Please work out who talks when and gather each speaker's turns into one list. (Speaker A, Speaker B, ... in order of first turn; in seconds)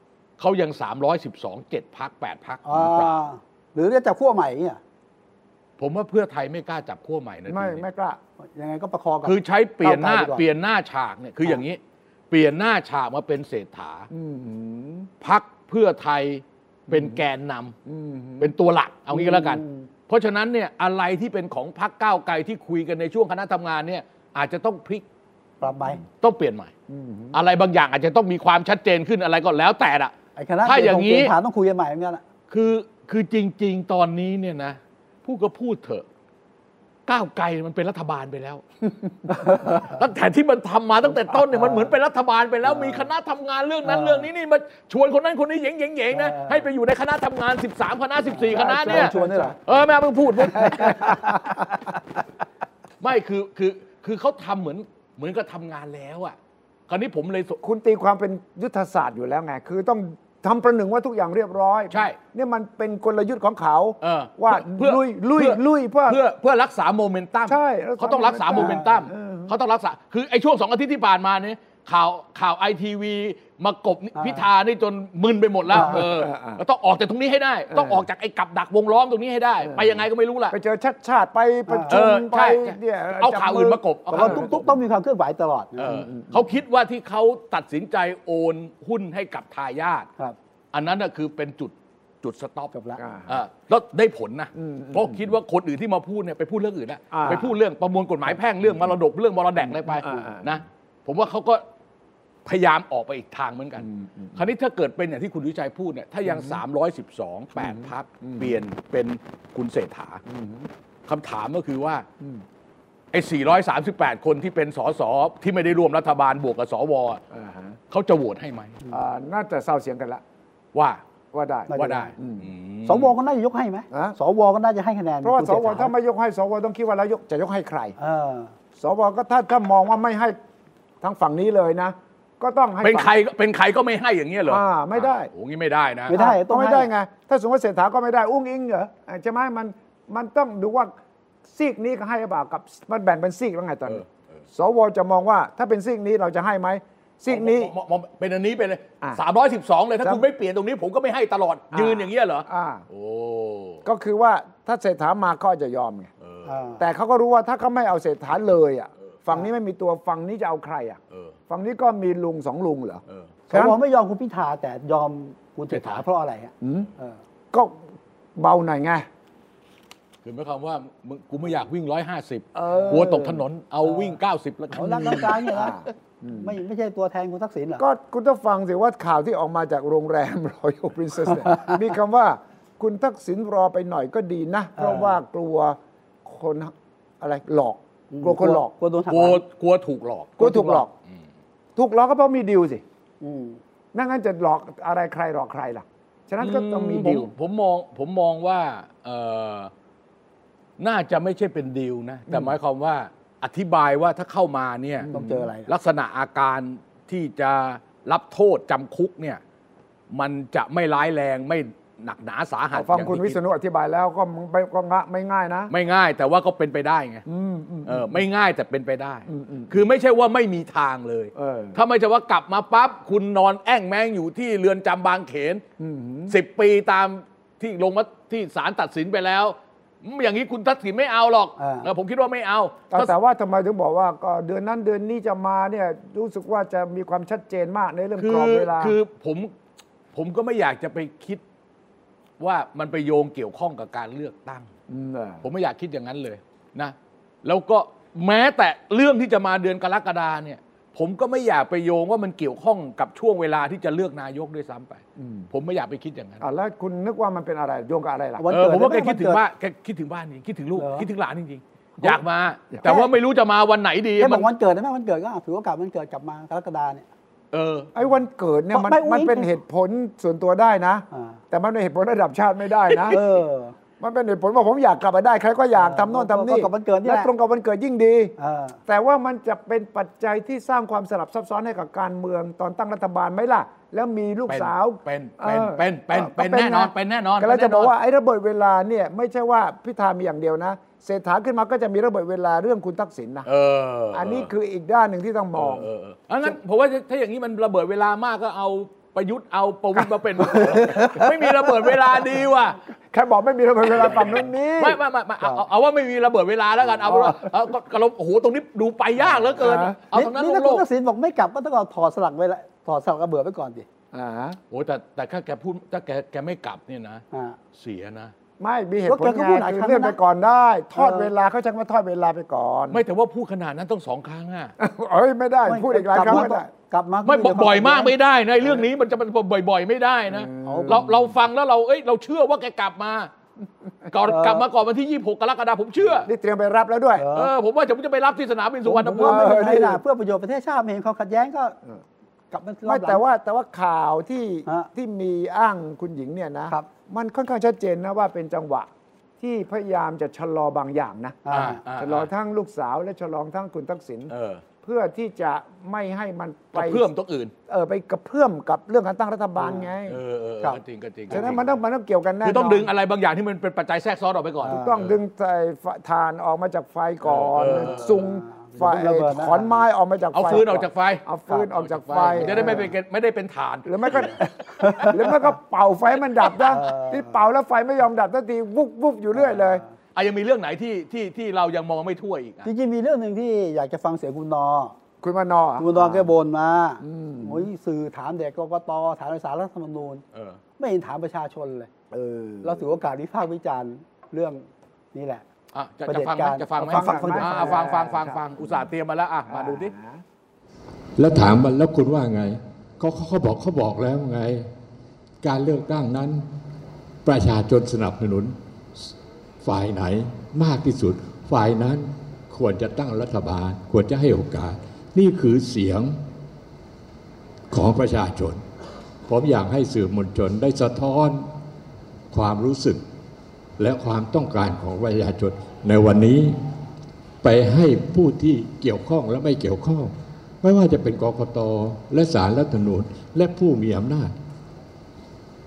Speaker A: 0.4-3.2, 5.8-7.8, 9.2-11.8, 12.3-14.1, 15.2-17.8, 18.4-25.0, 26.1-26.7, 27.3-31.3, 32.5-36.0, 37.1-38.6, 39.3-51.3, 53.0-56.4, 56.9-57.6, 61.9-62.2, 64.0-80.6, 81.9-84.6, 85.8-90.1, 90.7-92.7, 93.3-101.6, 102.5-110.2, 111.1-112.1, 113.1-117.2, 117.9-118.8, 120.7-121.0, 121.8-123.1, 132.8-136.1, 147.3-153.8, 156.2-156.5, 161.1-161.4, 165.7-166.1, 170.2-175.5, 189.1-190.4, 196.4-199.7, 200.8-205.1, 205.7-209.4, 210.1-213.4, 215.7-217.2, 217.8-225.6, 226.3-233.1, 238.2-239.5, 240.1-241.4, 242.4-244.7, 245.4-256.4, 258.5-264.5, 267.5-267.9, 284.5-287.9, 293.5-294.5, 295.6-302.8, 304.0-310.9, 314.7-318.3, 322.9-324.7, 326.2-326.5, 327.3-333.3, 334.1-336.3, 337.3-339.6, 351.5-352.3, 354.3-354.6, 356.7-357.5, 360.1-361.7, 362.4-365.2, 367.2-368.1, 370.3-374.5, 380.1-382.7, 390.3-390.6, 395.7-399.9
Speaker B: 2.6-4.8, 8.6-10.4, 19.1-19.9, 25.6-26.0, 30.4-32.2, 39.3-39.8, 41.6-41.9, 42.7-43.1, 43.9-44.3, 46.1-46.7, 48.3-49.6, 50.6-51.5, 68.6-68.9, 74.2-74.5, 75.7-76.0, 81.7-82.0, 84.1-85.9, 92.7-93.0, 121.7-122.1, 122.8-125.9, 128.0-128.5, 136.1-136.9, 156.5-156.8, 163.5-167.2, 172.8-173.2, 173.9-174.2, 174.7-175.8, 176.3-177.8, 184.8-185.2, 188.1-189.4, 190.4-190.8, 193.2-193.6, 205.1-205.7, 231.6-231.9, 258.4-259.4, 260.8-261.1, 264.2-267.1, 268.7-269.5, 271.1-271.4, 273.1-273.8, 275.8-277.3, 278.4-278.8, 300.8-301.2, 310.1-313.9, 317.3-317.6, 319.1-320.2, 321.0-321.3, 325.7-328.1, 330.6-331.1, 334.3-334.6, 337.2-337.5, 338.9-341.8, 342.5-343.2, 351.4-351.8, 359.6-359.9, 364.6-365.1, 367.7-369.9, 372.4-372.9, 374.1-375.5, 376.7-377.4, 379.4-379.8, 382.6-384.9, 385.8-390.2, 390.8-391.9, 392.6-395.4, 396.1-397.9
Speaker C: 7.5-8.2, 14.1-15.1, 16.9-17.2, 17.9-18.5, 26.9-27.4, 48.5-49.5, 50.5-51.8, 57.6-66.2, 67.5-69.5, 75.7-76.6, 77.7-78.0, 79.7-84.7, 85.8-86.5, 93.0-93.3, 94.6-95.2, 97.1-97.6, 99.9-100.5, 103.8-104.4, 106.3-106.6, 107.6-108.6, 110.3-110.7, 117.3-117.8, 118.9-120.2, 121.3-122.5, 125.2-128.0, 128.8-130.4, 131.0-133.1, 134.5-135.3, 136.1-140.9, 141.5-144.0, 144.5-147.7, 151.7-152.8, 153.8-156.1, 156.8-163.8, 166.6-166.9, 167.5-167.8, 168.4-169.1, 172.6-173.4, 175.1-176.5, 177.8-188.7, 190.4-190.9, 191.8-192.8, 193.9-197.3, 205.0-205.5, 212.7-215.7, 217.3-218.2, 219.3-219.8, 221.3-221.8, 225.8-226.4, 232.9-239.0, 244.9-245.4, 255.2-255.5, 256.4-258.5, 262.7-263.0, 267.9-273.2, 274.0-278.4, 278.9-293.5, 294.1-295.9, 300.4-301.2, 303.1-305.0, 307.1-307.5, 309.6-310.0, 314.1-314.6, 318.6-323.0, 324.8-326.7, 330.3-331.3, 336.2-337.3, 338.9-340.0, 342.9-354.3, 354.8-357.1, 357.7-360.2, 361.3-362.9, 364.6-372.9, 373.9-379.8, 385.2-386.3, 387.0-387.7, 392.1-392.9, 396.8-398.7, 399.5-400.2
Speaker D: 401.2-404.7, 405.4-406.5, 407.2-408.6, 409.6-416.2, 417.7-418.6, 419.3-421.5, 422.3-423.0, 423.8-426.6, 427.4-434.3